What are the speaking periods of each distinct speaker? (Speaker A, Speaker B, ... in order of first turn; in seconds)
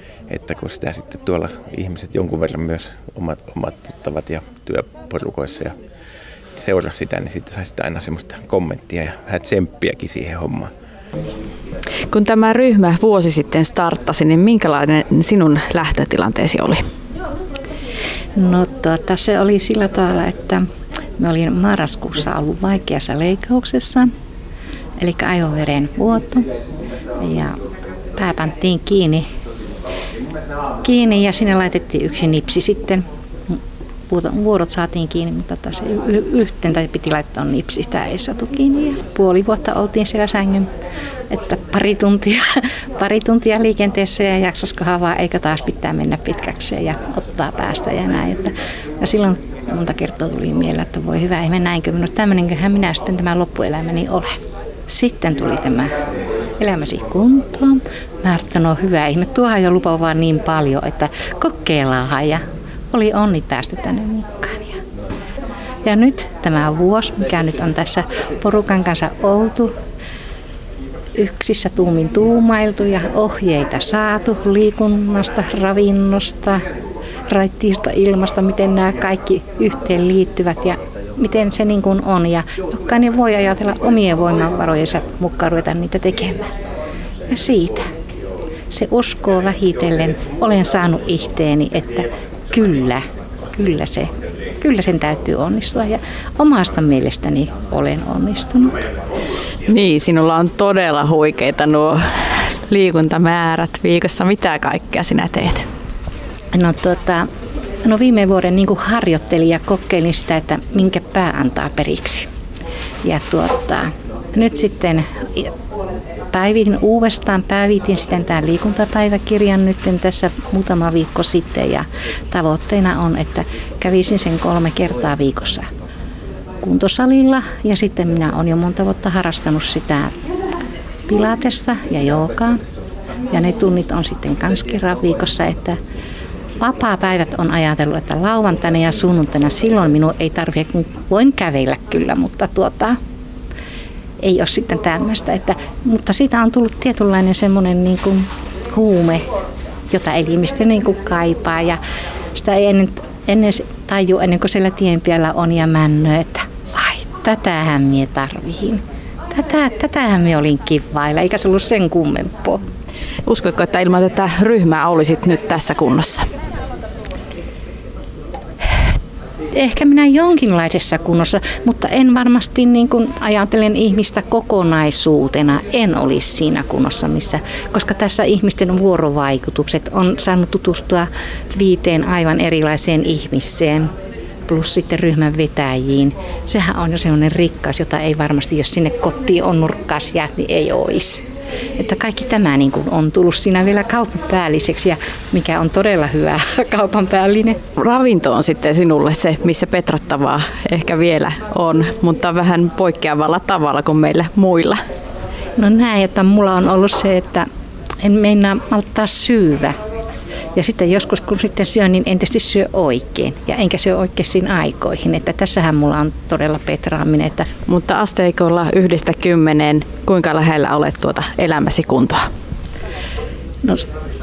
Speaker A: 0.3-5.8, 6.5-10.7
Speaker B: 12.1-16.8, 99.7-105.7, 163.2-166.3, 197.8-204.8, 217.7-222.2
Speaker C: 18.4-20.6, 21.2-24.1, 25.0-26.5, 27.2-27.6, 28.1-29.2, 30.8-33.6, 34.1-40.7, 41.3-55.9, 56.6-64.8, 65.8-69.7, 71.2-76.6, 77.3-86.5, 87.3-87.9, 88.7-93.0, 93.5-94.1, 94.6-98.8, 106.5-107.2, 107.8-112.3, 113.0-115.5, 116.3-125.7, 126.6-130.1, 131.1-132.6, 133.3-135.8, 136.6-143.0, 144.2-149.2, 149.9-151.8, 152.3-162.6, 169.5-183.9, 184.4-191.2, 191.8-197.6, 205.6-207.5, 208.0-209.7, 210.6-217.5